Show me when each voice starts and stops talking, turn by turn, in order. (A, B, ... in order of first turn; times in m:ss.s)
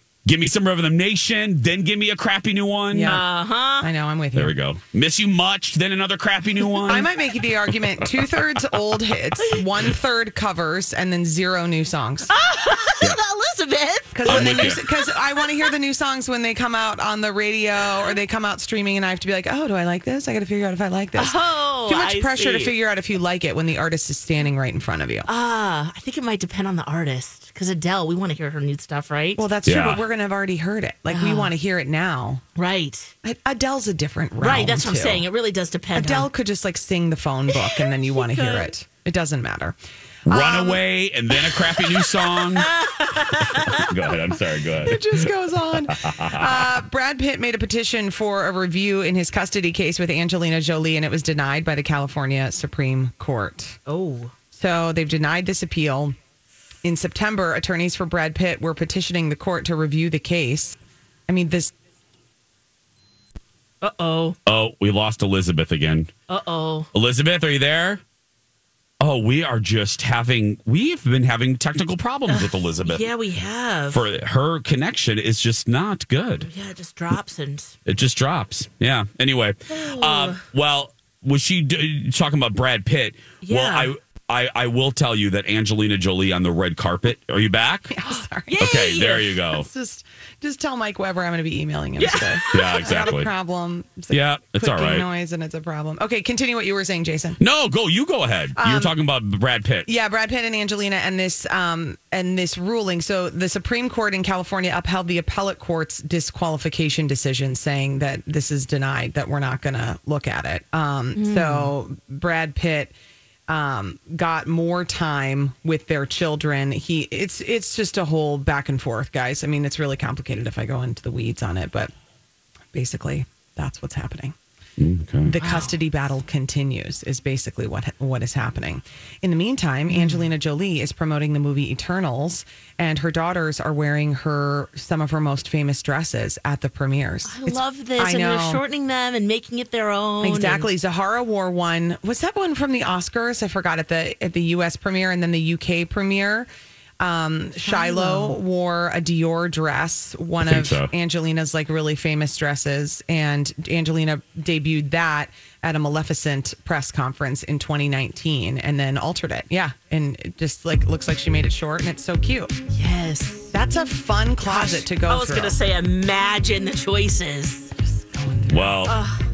0:00.2-0:03.2 A
0:02.9-0:03.2 B
0:03.0-0:03.9 C
0:03.8-0:04.6 B
0:04.3-0:07.1 A
0:06.8-0:12.3 B
0:12.3-0:15.1 C
0:14.1-0:25.3 B
0:14.2-0:14.8 A
0:21.1-0:22.8 C
0:25.2-0:29.4 C
0:29.4-0:32.4 B
0:29.6-0:30.0 A
0:31.1-0:31.5 C
0:32.6-0:33.1 C
0:33.2-0:35.2 B
0:34.4-0:36.3 C
0:35.9-0:39.8 B
0:37.5-0:38.7 C
0:40.3-0:42.7 A
0:40.3-0:40.8 B
0:41.9-0:43.8 C
0:43.6-0:45.2 A
0:44.8-0:53.8 B
0:45.9-0:46.7 A
0:53.8-0:54.3 C
0:54.5-0:56.2 B
0:56.8-1:00.8 B
1:01.3-1:01.7 B
1:03.8-1:04.4 C
1:04.4-1:06.1 A
1:06.3-1:06.9 C
1:06.9-1:08.0 A
1:09.0-1:13.1 A
1:12.3-1:14.0 C
1:13.9-1:16.5 A
1:16.4-1:17.7 C
1:17.8-1:27.9 A
1:19.7-1:20.4 C
1:23.4-1:23.9 C
1:27.9-1:28.7 B
1:28.5-1:29.4 C
1:28.6-1:29.7 A
1:29.5-1:37.4 B
1:32.0-1:33.1 C
1:32.5-1:33.3 A
1:34.1-1:35.1 A
1:37.4-1:39.9 A
1:38.6-1:39.0 B
1:39.8-1:52.9 B
1:51.1-1:51.7 C
1:53.5-2:01.9 B
2:02.7-2:04.3 B
2:04.8-2:05.3 A
2:05.2-2:18.6 B
2:05.4-2:05.8 C
2:09.9-2:10.3 C
2:17.2-2:20.7 C
2:20.2-2:26.5 B
2:27.0-2:42.5 B
2:27.6-2:28.4 C
2:30.4-2:30.9 A
2:42.7-2:43.5 C
2:43.5-2:45.6 B
2:44.4-2:47.7 C
2:48.1-2:48.9 B
2:48.5-2:48.9 A
2:48.8-2:49.2 C